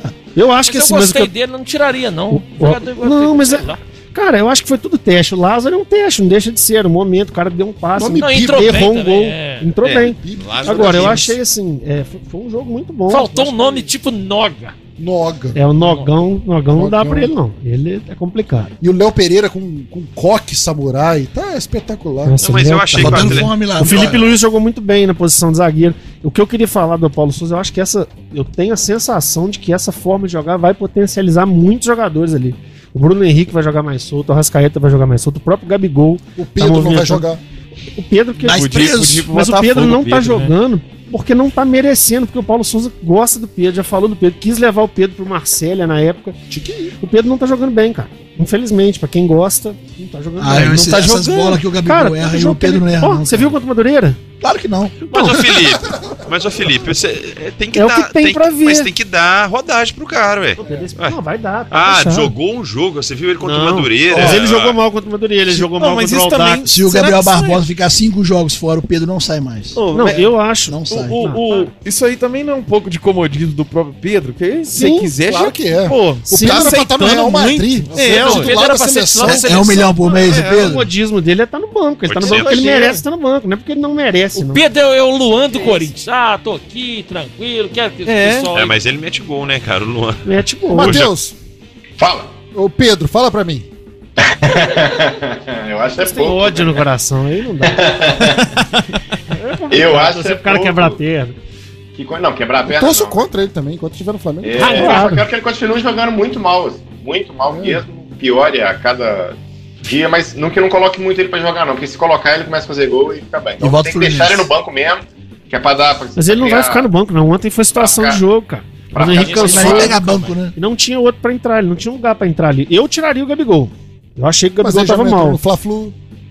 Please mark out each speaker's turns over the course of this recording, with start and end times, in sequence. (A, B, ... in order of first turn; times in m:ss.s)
0:00.4-0:01.3 A
0:00.7-0:03.8 B
0:02.3-0:13.9 A
0:08.0-0:08.8 C
0:08.1-0:09.7 B
0:09.8-0:11.3 D
0:09.9-0:11.3 C
0:13.1-0:14.8 B
0:15.0-0:15.6 C
0:15.6-0:18.7 A
0:15.8-0:16.1 B
0:16.7-0:17.3 C
0:18.8-0:22.4 C
0:22.2-0:37.3 A
0:22.4-0:23.6 D
0:23.0-0:24.3 E
0:36.4-0:37.4 C
0:38.0-0:46.4 A
0:38.4-0:39.3 E
0:38.5-0:40.5 F
0:46.5-0:47.0 C
0:47.0-0:54.2 A
0:50.4-0:53.6 E
0:54.4-0:55.0 E
0:55.0-1:01.2 D
0:55.1-0:55.6 A
0:57.8-0:58.9 A
1:00.6-1:02.3 A
1:01.7-1:04.8 D
1:03.4-1:06.6 A
1:05.5-1:07.7 F
1:06.7-1:09.8 E
1:09.8-1:10.4 F
1:09.9-1:11.4 A
1:10.7-1:11.2 E
1:10.9-1:18.5 F
1:14.7-1:15.1 A
1:15.2-1:19.8 C
1:15.9-1:16.8 A
1:17.9-1:18.5 A
1:18.2-1:19.6 B
1:19.2-1:20.9 E
1:19.7-1:24.6 A
1:20.2-1:20.7 F
1:22.1-1:22.8 D
1:24.4-1:28.8 B
1:28.1-1:28.5 F
1:28.5-1:30.3 D
1:30.2-1:31.0 A
1:30.7-1:31.4 C
1:30.8-1:31.1 D
1:32.0-1:32.3 G
1:32.5-1:33.7 C
1:34.2-1:36.8 G
1:36.0-1:37.9 A
1:37.6-1:38.6 G
1:39.3-1:41.4 A
1:39.7-1:41.0 G
1:42.0-1:43.2 G
1:42.7-1:44.8 C
1:44.4-1:56.9 G
1:44.6-1:45.1 B
1:44.7-1:45.2 A
1:47.5-1:47.8 C
1:53.6-1:54.5 E
1:56.2-2:00.0 A
1:57.7-1:58.2 G
1:58.9-2:00.3 G
1:59.1-2:00.0 B
1:59.4-2:00.5 E
2:00.5-2:05.4 A
2:04.6-2:06.0 C